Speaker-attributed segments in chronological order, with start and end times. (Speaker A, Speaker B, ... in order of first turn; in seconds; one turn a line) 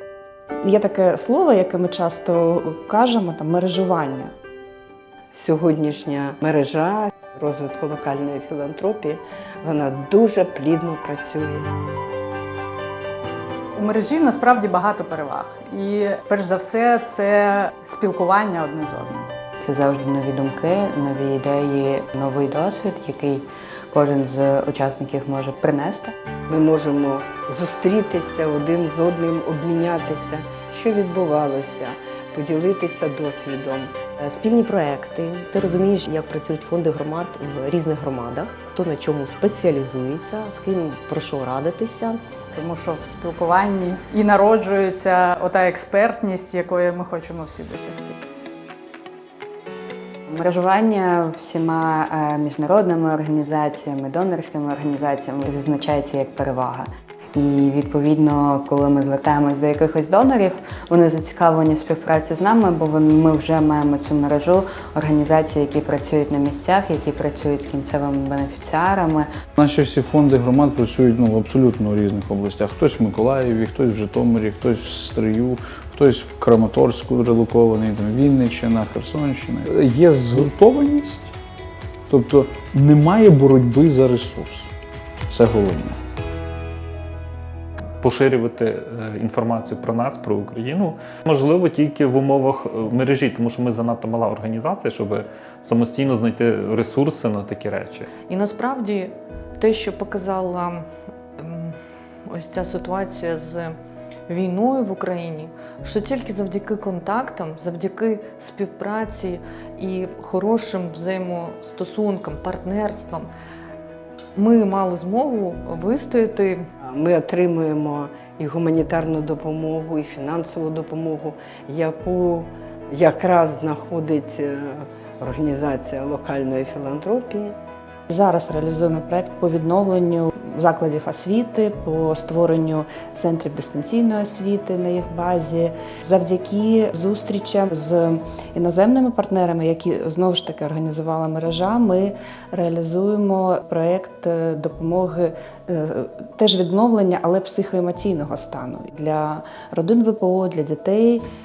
Speaker A: 0.6-4.3
Speaker B: 5.3-11.7
Speaker C: 13.7-19.3
Speaker D: 19.6-26.1
Speaker B: 26.5-34.0
Speaker E: 34.2-42.2
Speaker C: 42.5-48.2
Speaker D: 50.3-69.3
Speaker F: 69.5-81.3
Speaker F: 82.1-84.7
Speaker F: 85.3-86.0
Speaker G: 88.0-98.1
Speaker H: 98.3-100.8
Speaker H: 101.4-101.7
Speaker H: 102.3-103.7
Speaker H: 104.3-113.3
Speaker H: 114.3-116.6
Speaker B: 116.8-127.5
Speaker A: 128.1-151.2